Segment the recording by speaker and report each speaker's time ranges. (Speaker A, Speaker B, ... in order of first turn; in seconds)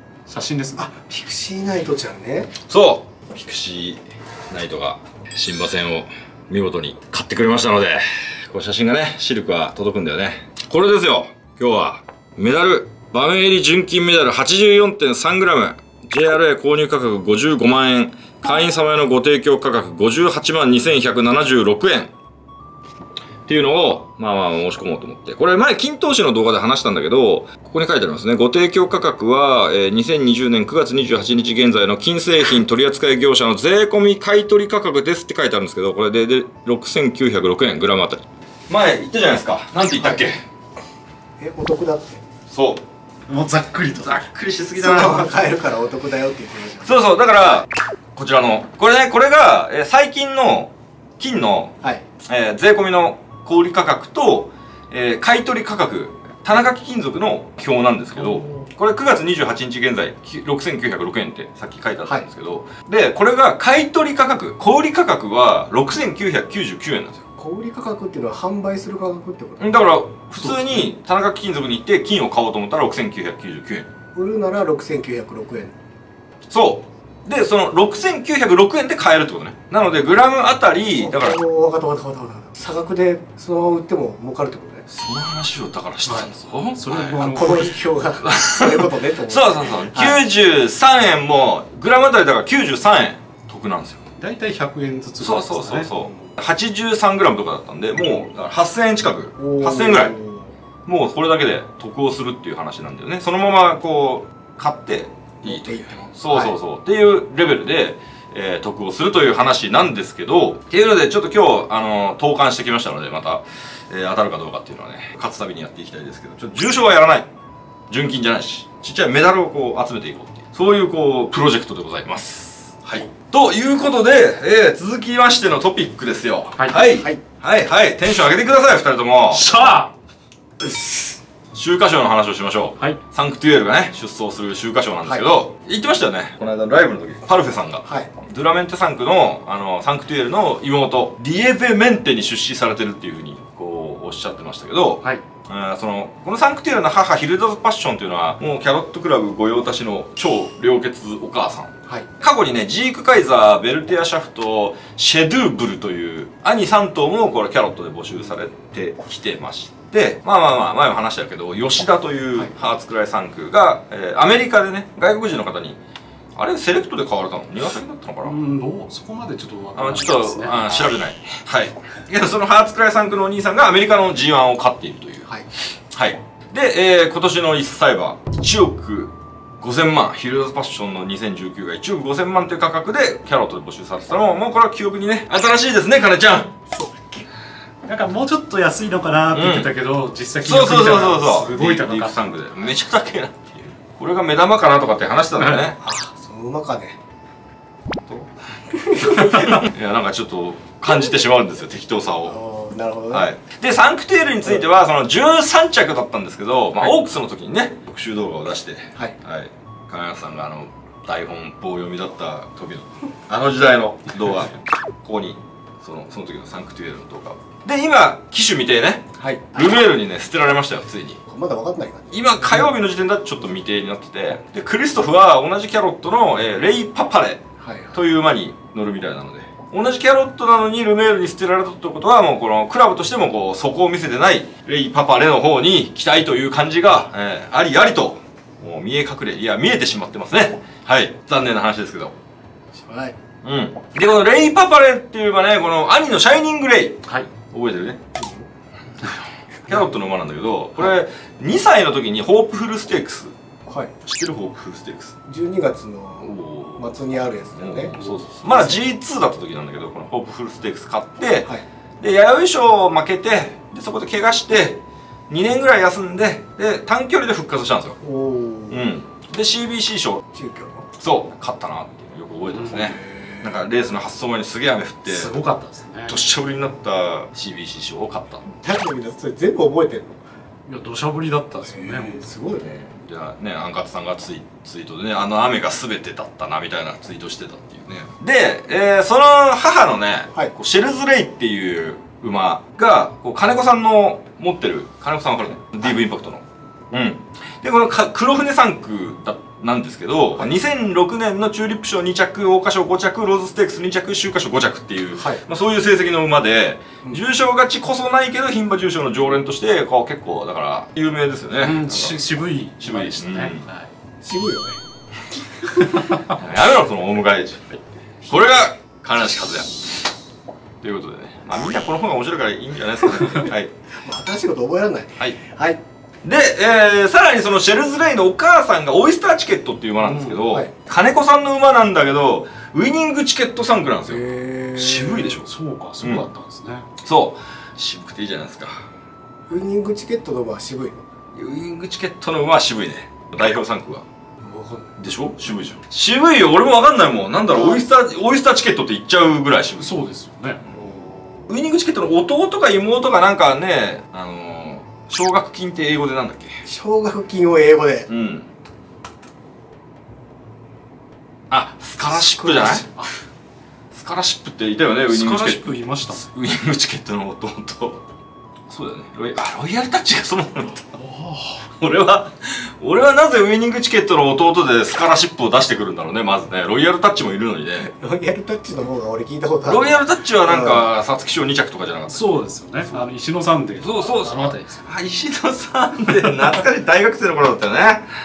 Speaker A: 0.3-0.8, 43.3-44.2, 70.4-70.9, 86.0-87.8, 94.2-95.9, 129.3-129.9, 168.2-170.9, 187.8-192.5, 258.0-258.2, 272.5-272.9, 275.1-276.2, 280.7-282.2, 311.6-313.9, 330.0-330.4, 335.4-336.9, 349.8-350.6, 362.6-363.1, 365.1-366.3, 370.9-371.6, 382.1-384.9
Speaker B: 0.8-2.5, 41.4-42.2, 44.8-47.0, 58.2-58.6, 67.4-69.7, 74.1-75.7, 80.9-84.9, 87.2-90.2, 99.4-100.5, 105.4-106.6, 127.0-127.2, 186.7-187.2, 195.8-197.0, 198.7-199.6, 202.2-203.3, 219.2-219.7, 221.3-222.2, 227.6-228.0, 242.7-243.1, 248.2-248.5, 253.7-253.9, 255.3-258.8, 268.0-268.8, 270.3-270.9, 272.6-273.5, 278.6-280.2, 281.6-282.8, 314.2-314.8, 315.4-316.0, 324.0-325.8, 334.0-335.4, 339.5-341.0, 344.4-344.9, 347.5-347.8, 350.7-351.5, 356.6-358.1, 362.4-363.0, 377.8-380.9
Speaker C: 2.7-22.1, 23.5-40.4, 42.5-42.8, 43.9-45.3, 46.8-67.2, 69.6-73.9, 76.5-81.4, 84.9-87.2, 88.2-94.0, 95.2-100.1, 100.8-117.3, 117.9-129.8, 131.5-165.8, 166.3-168.3, 169.7-175.3, 175.9-186.5, 189.3-189.7, 190.4-195.8, 199.0-202.4, 203.1-221.2, 222.1-227.4, 227.9-242.2, 243.4-248.0, 249.7-253.3, 254.0-255.1, 256.2-257.0, 257.6-268.0, 268.7-270.2, 270.9-275.4, 276.1-278.4, 282.7-312.2, 312.8-313.6, 316.2-319.8, 320.8-323.7, 326.2-335.5, 336.0-336.3, 337.0-338.8, 341.3-344.1, 345.0-350.0, 351.5-356.5, 358.1-358.5, 361.5-362.9, 363.9-368.0, 368.7-370.9, 371.6-377.9, 379.6-382.4, 383.8-388.0